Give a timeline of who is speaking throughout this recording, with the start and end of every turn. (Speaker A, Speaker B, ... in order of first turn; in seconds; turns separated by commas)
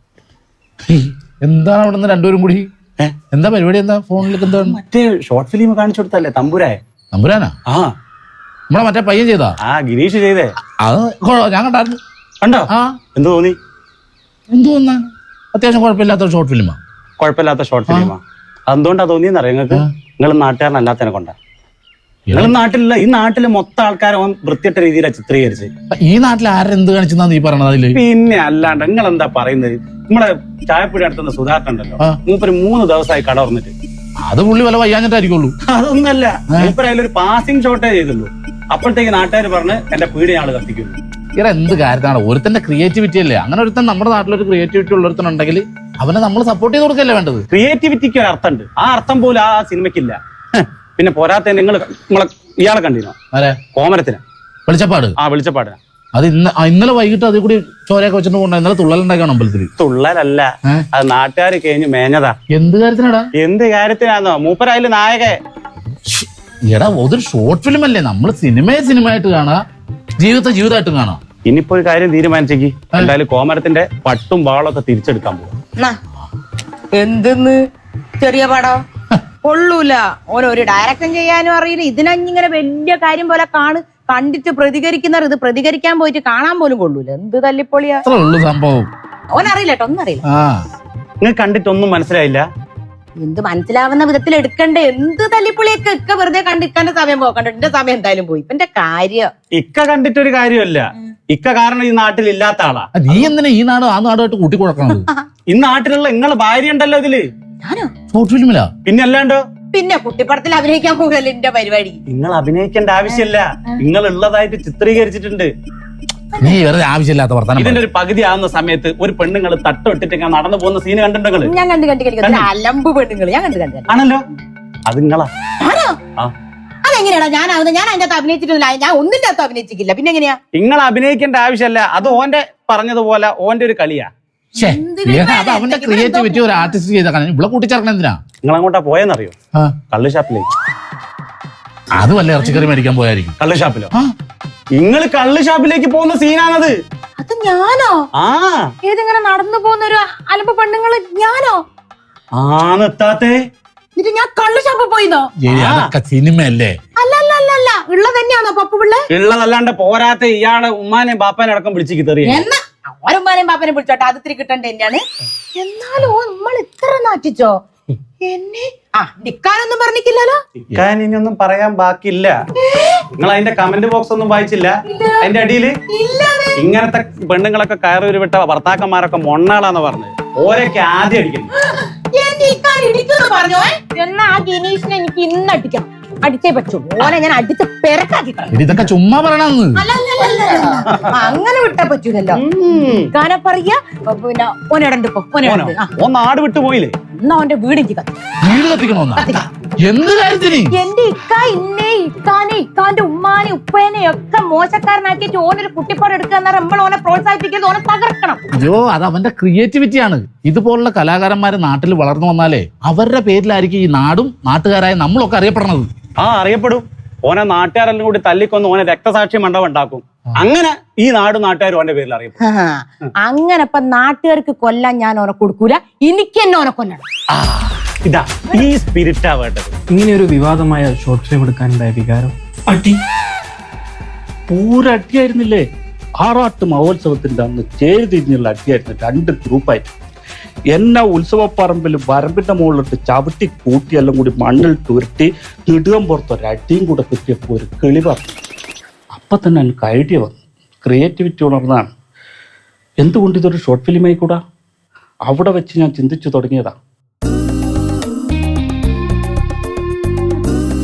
Speaker A: 0.9-2.7, Speaker A: 3.3-4.8, Speaker B: 4.6-6.8, Speaker A: 7.1-7.5, Speaker A: 8.7-9.6, Speaker B: 9.7-10.5, Speaker A: 10.8-12.0, Speaker B: 12.4-13.6, Speaker A: 14.5-16.8, Speaker B: 17.2-21.4, Speaker A: 22.3-22.6, Speaker B: 22.3-25.7, Speaker A: 26.0-28.0, Speaker B: 27.9-33.7, Speaker A: 34.3-35.5, Speaker B: 35.7-41.0, Speaker A: 41.4-47.5, Speaker B: 47.5-53.1, Speaker A: 53.3-53.6, Speaker B: 53.8-54.2, Speaker A: 54.7-55.1, Speaker B: 55.2-55.8, Speaker A: 56.1-59.7, Speaker B: 59.8-62.3, Speaker A: 62.5-63.3, Speaker B: 63.4-65.3, Speaker A: 66.1-69.6, Speaker A: 70.2-71.2, Speaker B: 71.5-75.5, Speaker C: 76.9-77.6, Speaker C: 78.2-78.8, Speaker C: 79.4-88.0, Speaker A: 88.1-88.9, Speaker C: 89.3-90.2, Speaker A: 90.3-90.6, Speaker B: 91.2-92.5, Speaker C: 93.2-99.3, Speaker B: 99.6-102.9, Speaker A: 103.0-105.0, Speaker B: 105.5-107.2, Speaker C: 107.6-107.9, Speaker A: 108.1-108.7, Speaker B: 108.8-109.4, Speaker C: 109.7-112.0, Speaker B: 112.1-115.5, Speaker C: 116.3-116.6, Speaker A: 116.4-117.8, Speaker B: 117.6-121.5, Speaker C: 121.4-123.9, Speaker B: 122.2-122.5, Speaker B: 123.9-124.2, Speaker B: 124.9-125.3, Speaker C: 125.6-126.0, Speaker C: 126.8-130.4, Speaker B: 130.6-134.1, Speaker A: 134.6-138.2, Speaker C: 134.6-136.7, Speaker B: 138.4-139.3, Speaker B: 139.9-140.4, Speaker A: 142.0-143.3, Speaker B: 143.4-143.9, Speaker B: 144.8-146.7, Speaker C: 147.2-148.1, Speaker B: 148.2-148.6, Speaker C: 148.8-151.6, Speaker B: 152.4-153.3, Speaker C: 154.0-155.3, Speaker A: 155.4-156.7, Speaker B: 155.5-155.9, Speaker C: 157.0-159.0, Speaker B: 159.1-162.4, Speaker C: 162.2-165.0, Speaker C: 165.6-167.6, Speaker C: 168.2-170.4, Speaker B: 170.7-172.3, Speaker B: 173.2-174.7, Speaker C: 174.9-175.2, Speaker B: 175.2-175.7, Speaker C: 175.9-176.5, Speaker B: 176.6-181.5, Speaker C: 182.1-188.8, Speaker A: 188.5-189.8, Speaker C: 189.8-192.4, Speaker B: 190.8-191.1, Speaker B: 192.3-193.1, Speaker C: 193.1-195.9, Speaker B: 195.4-196.9, Speaker C: 197.2-198.1, Speaker A: 198.4-199.3, Speaker C: 199.2-199.5, Speaker A: 199.8-200.7, Speaker C: 200.7-208.4, Speaker A: 208.6-215.9, Speaker B: 216.2-222.4, Speaker C: 222.4-227.0, Speaker B: 227.3-229.8, Speaker D: 229.9-232.3, Speaker E: 232.7-233.0, Speaker E: 234.5-235.6, Speaker E: 236.2-239.9, Speaker E: 240.7-248.3, Speaker E: 249.1-251.9, Speaker E: 253.0-254.4, Speaker E: 255.3-256.8